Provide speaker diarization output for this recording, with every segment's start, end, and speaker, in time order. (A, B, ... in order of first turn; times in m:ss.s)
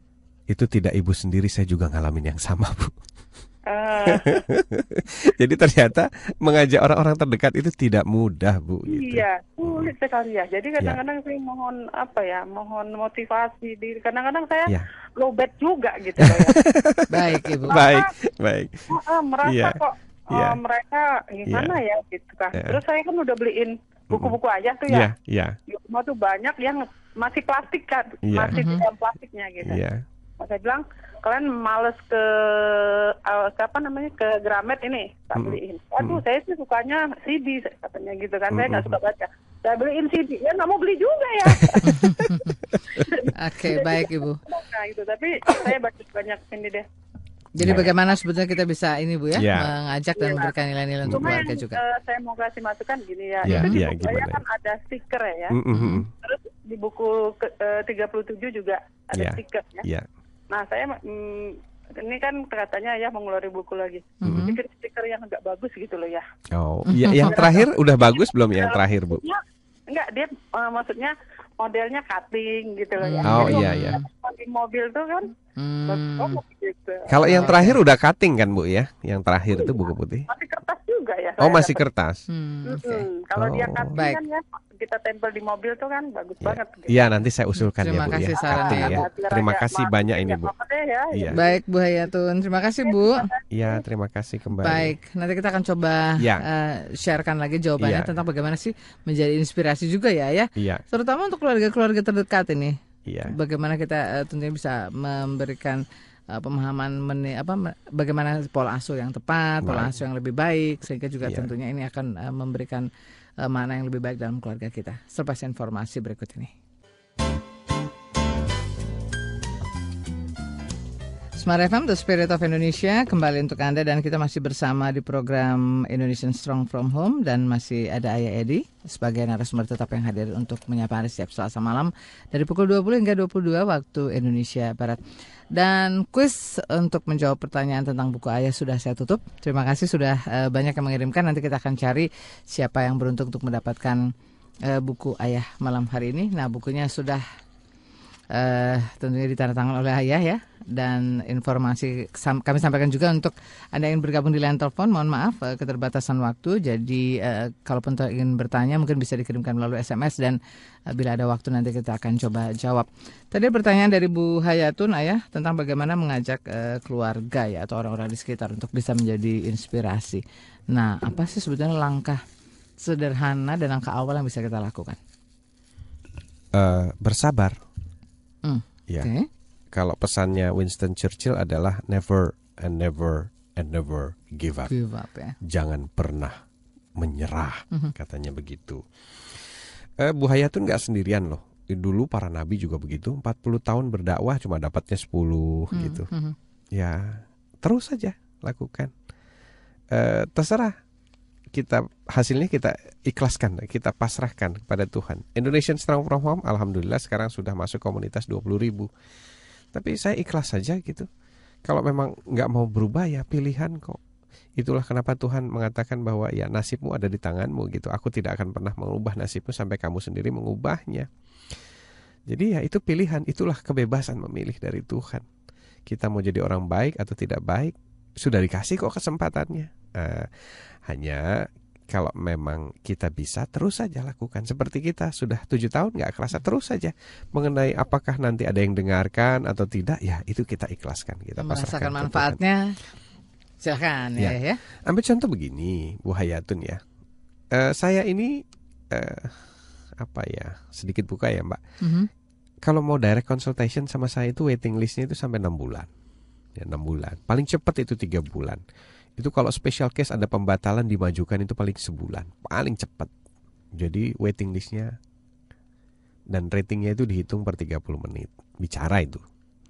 0:00.5-0:03.0 A
0:03.7-0:04.4 B
0:04.0-0:09.9 A
0:08.9-0:16.6 B
0:16.2-0:20.6 A
0:17.1-0:17.9 C
0:17.7-0:18.1 B
0:18.9-0:25.1 B
0:21.5-0:21.8 A
0:24.1-0:24.4 A
0:24.9-0:25.6 A
0:25.7-0:29.8 B
0:28.3-0:28.6 A
0:28.5-0:28.8 C
0:29.6-0:30.0 A
0:30.4-0:46.9 B
0:35.4-0:36.2 A
0:38.5-0:39.0 A
0:41.8-0:42.4 C
0:43.3-0:44.4 C
0:47.6-0:51.8 C
0:47.6-0:47.9 A
0:49.4-0:49.7 A
0:50.2-0:50.6 B
0:51.1-0:51.4 A
0:51.1-0:55.6 B
0:53.4-0:54.4 A
0:53.5-0:53.8 C
0:55.5-0:56.1 A
0:55.7-0:56.0 C
0:56.2-0:59.9 B
0:59.1-1:00.1 A
1:00.5-1:06.2 B
1:04.2-1:04.6 C
1:04.2-1:04.5 A
1:06.5-1:09.2 A
1:06.9-1:07.5 C
1:07.2-1:15.3 B
1:13.0-1:14.0 C
1:13.2-1:14.0 A
1:15.6-1:16.4 C
1:15.9-1:17.5 B
1:17.1-1:20.3 A
1:17.2-1:17.8 C
1:19.5-1:21.8 B
1:21.4-1:22.2 A
1:22.3-1:23.1 C
1:22.7-1:27.1 B
1:23.4-1:23.9 A
1:23.9-1:24.2 C
1:26.4-1:30.5 A
1:27.8-1:29.1 C
1:28.4-1:31.6 B
1:31.1-1:31.4 A
1:31.3-1:33.3 C
1:32.9-1:33.8 B
1:33.5-1:34.9 A
1:34.6-1:52.9 C
1:36.2-1:36.4 A
1:37.8-1:38.1 A
1:40.6-1:40.8 A
1:43.1-1:43.4 A
1:49.6-1:50.0 A
1:51.2-1:51.5 A
1:53.4-1:56.5 C
2:01.4-2:15.0 C
2:15.5-2:24.1 C
2:24.6-2:27.2 C
2:28.3-2:40.4 C
2:40.9-2:52.2 C
2:52.8-2:55.0 C
2:56.5-2:57.6 A
2:58.4-2:59.3 C
2:59.7-3:04.7 A
3:04.7-3:05.4 C
3:05.4-3:06.4 A
3:07.0-3:16.1 A
3:15.7-3:16.4 C
3:16.7-3:18.9 A
3:19.9-3:20.8 A
3:21.5-3:28.9 A
3:29.7-3:31.1 A
3:31.6-3:34.0 A
3:34.6-3:41.6 A
3:42.3-3:45.2 A
3:45.9-4:02.4 A
4:01.4-4:02.8 C
4:03.6-4:04.6 C
4:04.2-4:06.8 A
4:07.5-4:11.6 A
4:11.8-4:12.1 C
4:12.6-4:15.9 A
4:16.6-4:18.6 A
4:19.2-4:23.1 A
4:23.8-4:25.0 A
4:26.3-4:29.2 A